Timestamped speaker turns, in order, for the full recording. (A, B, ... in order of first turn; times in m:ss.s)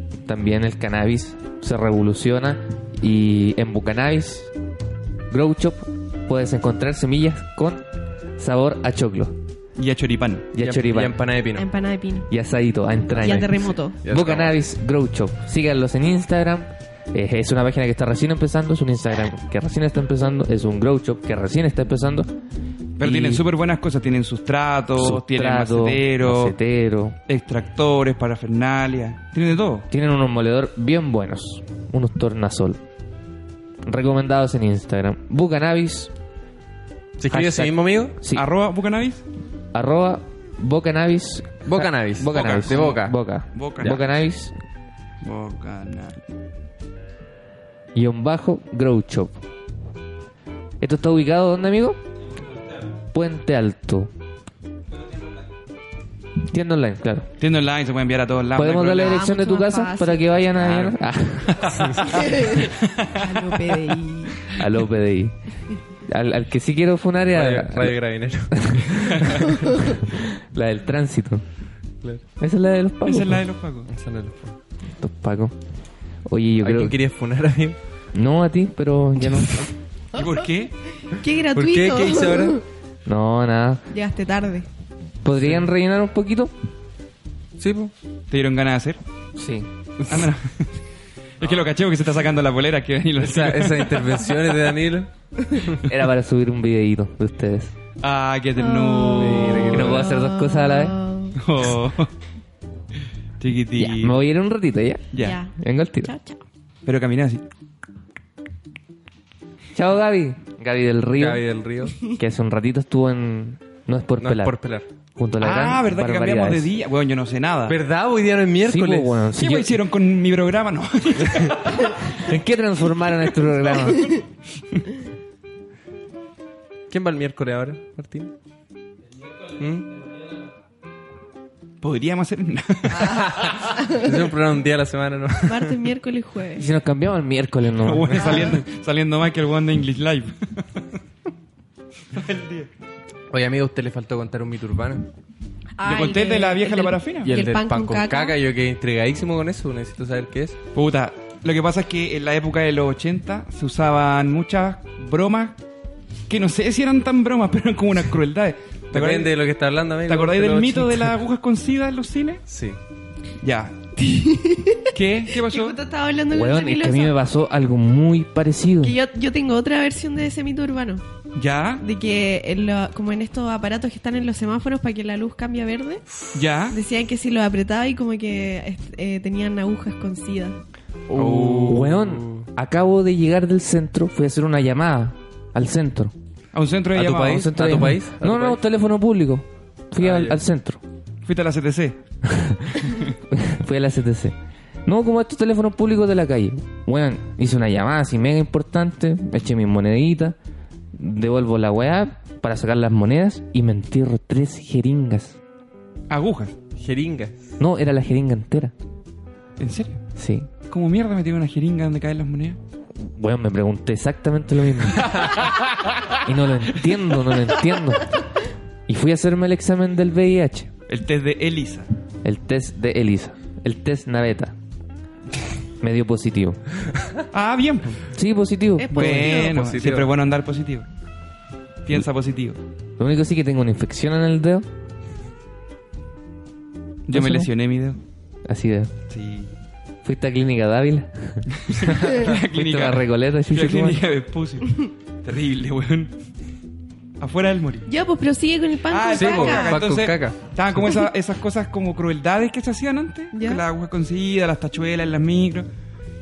0:00.2-0:04.5 A
0:05.3-0:07.8 A
0:08.4-0:09.4 A
0:09.8-0:10.5 B
0:10.5-0:11.2 A
0:10.6-0:11.7 C
0:11.6-0:12.3 D
0:12.3-0:22.3 A
0:13.2-0:14.6 C
0:13.2-0:14.0 D
0:23.0-0:26.5 B
0:23.0-0:23.4 A
0:24.9-0:27.2 A
0:27.3-0:29.8 B
0:29.9-0:32.8 A
0:33.8-0:36.1 A
0:37.2-0:38.2 C
0:37.3-0:38.4 A
0:38.3-0:39.2 B
0:39.7-0:44.5 A
0:41.6-0:43.2 C
0:42.3-0:42.9 B
0:43.5-0:44.0 B
0:45.2-0:46.2 B
0:47.9-0:49.4 A
0:50.8-0:52.0 A
0:53.1-0:54.1 A
0:56.5-0:57.3 A
0:57.4-0:59.2 B
0:58.5-1:02.1 A
0:59.0-1:00.3 D
1:00.6-1:01.0 C
1:01.6-1:02.2 C
1:02.2-1:02.6 D
1:02.7-1:03.3 B
1:03.2-1:04.5 D
1:04.5-1:05.4 A
1:06.0-1:08.0 A
1:07.3-1:09.4 C
1:08.5-1:11.4 A
1:12.4-1:13.4 A
1:13.0-1:13.9 B
1:13.9-1:14.6 C
1:15.0-1:15.5 A
1:16.2-1:17.0 A
1:16.6-1:17.8 C
1:18.1-1:19.7 A
1:20.1-1:20.7 B
1:21.1-1:22.6 D
1:21.5-1:22.6 C
1:23.0-1:23.8 A
1:23.9-1:24.7 D
1:25.2-1:26.5 A
1:27.6-1:27.9 C
1:28.3-1:29.0 B
1:29.3-1:29.7 A
1:30.1-1:30.7 B
1:31.4-1:34.2 B
1:33.2-1:35.1 C
1:35.8-1:37.7 A
1:38.0-1:40.0 B
1:38.6-1:41.4 D
1:39.2-1:40.0 C
1:39.7-1:41.0 A
1:41.4-1:42.1 B
1:43.4-1:44.2 B
1:43.8-1:46.1 A
1:45.2-1:46.4 D
1:46.8-1:47.4 B
1:49.7-1:51.4 A
1:51.2-1:52.0 C
1:52.0-1:54.6 A
1:54.2-1:54.8 C
1:55.1-1:56.7 A
1:55.4-1:57.8 B
1:57.7-1:59.2 C
1:58.6-1:59.8 A
1:59.4-2:01.9 B
2:02.1-2:04.1 A
2:06.9-2:08.3 C
2:09.6-2:10.0 C
2:11.8-2:13.5 B
2:13.1-2:15.8 C
2:15.4-2:16.6 D
2:16.6-2:18.5 A
2:17.8-2:20.8 B
2:22.1-2:22.7 B
2:23.3-2:25.1 C
2:25.8-2:28.4 D
2:25.8-2:27.3 B
2:27.2-2:30.6 C
2:30.7-2:35.6 B
2:36.3-2:39.3 B
2:38.9-2:41.2 C
2:40.1-2:42.4 B
2:42.5-2:42.8 C
2:43.4-2:43.8 B
2:44.0-2:47.2 D
2:44.9-2:45.8 B
2:46.3-2:48.9 A
2:48.8-2:51.0 D
2:51.3-2:51.8 B
2:51.8-2:56.0 D
2:56.3-2:56.8 B
2:56.7-3:00.6 D
3:01.1-3:02.5 C
3:01.1-3:01.9 B
3:01.6-3:06.1 A
3:06.5-3:07.5 B
3:06.9-3:08.6 C
3:07.2-3:10.8 A
3:10.0-3:10.4 C
3:11.2-3:12.0 B
3:12.2-3:20.4 A
3:20.9-3:25.4 A
3:26.1-3:26.5 B
3:26.8-3:27.4 C
3:27.6-3:28.7 A
3:29.6-3:30.0 B
3:30.2-3:30.5 A
3:30.7-3:32.6 B
3:33.0-3:35.5 A
3:36.1-3:38.1 A
3:38.9-3:40.7 A
3:40.9-3:41.9 B
3:42.2-3:44.5 A
3:45.8-3:46.6 A
3:47.3-3:48.0 B
3:48.1-3:49.4 A
3:48.8-3:49.6 D
3:48.9-3:50.8 B
3:49.0-3:50.1 C
3:51.8-3:52.6 B
3:53.0-3:54.6 A
3:57.1-3:58.0 B
3:57.1-3:57.5 A
3:58.4-3:58.9 A
3:59.1-3:59.5 B
4:00.0-4:01.5 A
4:01.7-4:06.1 B
4:02.5-4:04.0 A
4:07.2-4:07.9 B
4:07.9-4:09.8 D
4:08.9-4:15.7 B
4:09.1-4:10.4 C
4:13.3-4:13.6 D